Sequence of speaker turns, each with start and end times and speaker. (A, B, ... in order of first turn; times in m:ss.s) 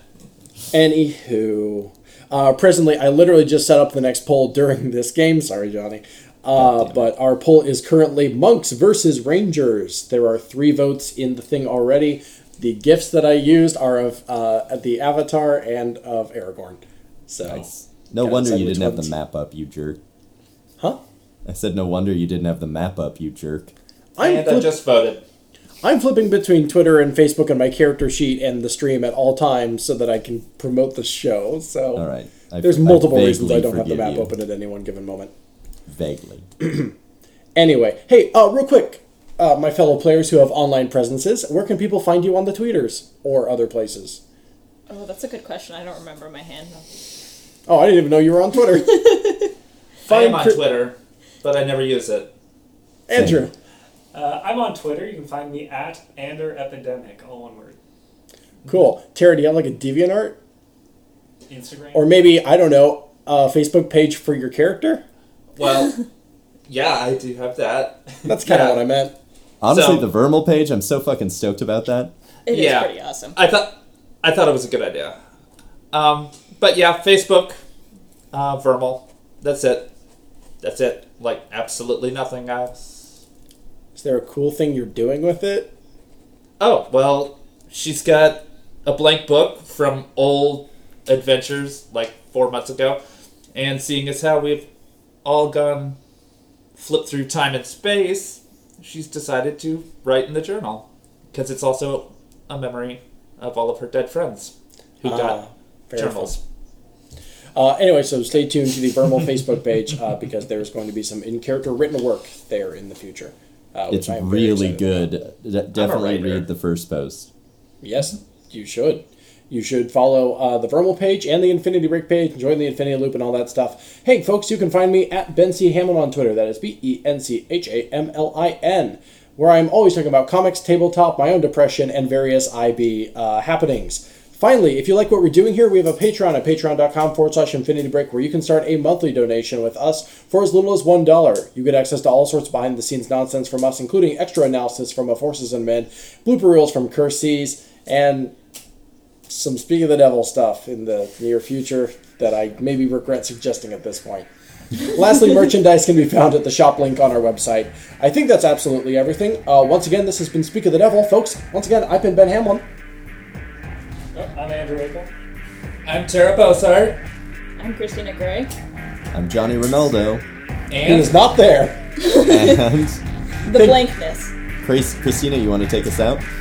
0:00.7-0:19.1 A
0:17.9-0:20.0 B
0:21.4-0:23.7 B
0:24.2-0:24.7 A
0:24.2-0:25.2 C
0:25.8-0:32.0 A
0:32.0-0:34.3 B
0:32.6-0:35.3 A
0:35.9-0:36.5 B
0:36.6-0:36.9 A
0:37.6-0:44.2 A
0:44.9-0:46.9 D
0:47.7-0:49.4 A
0:50.1-0:50.6 A
0:50.1-0:52.3 C
0:53.1-0:53.5 A
0:53.1-0:53.4 B
0:54.1-0:57.8 E
0:58.7-1:00.4 A
1:01.5-1:02.1 E
1:01.9-1:05.0 A
1:05.6-1:06.0 C
1:06.7-1:08.8 C
1:08.2-1:09.1 A
1:09.6-1:12.1 B
1:09.7-1:10.0 C
1:12.5-1:13.4 D
1:12.5-1:15.2 C
1:15.9-1:17.6 C
1:18.3-1:19.9 C
1:20.6-1:23.1 C
1:24.0-1:25.7 A
1:26.6-1:33.0 C
1:33.5-1:34.7 C
1:35.2-1:36.0 C
1:36.8-1:45.4 C
1:45.0-1:46.4 A
1:46.0-1:46.4 C
1:47.6-1:55.1 A
1:53.9-1:57.3 B
1:55.7-1:56.4 C
1:57.8-2:28.3 A
2:29.3-2:34.3 A
2:34.8-2:42.6 A
2:44.1-2:45.1 E
2:45.8-2:47.0 C
2:47.6-2:48.5 D
2:49.1-2:50.2 B
2:50.7-2:51.2 C
2:50.8-2:51.8 A
2:52.0-2:52.6 D
2:52.1-2:53.0 B
2:53.4-2:54.3 D
2:53.5-2:53.9 A
2:54.6-2:56.2 B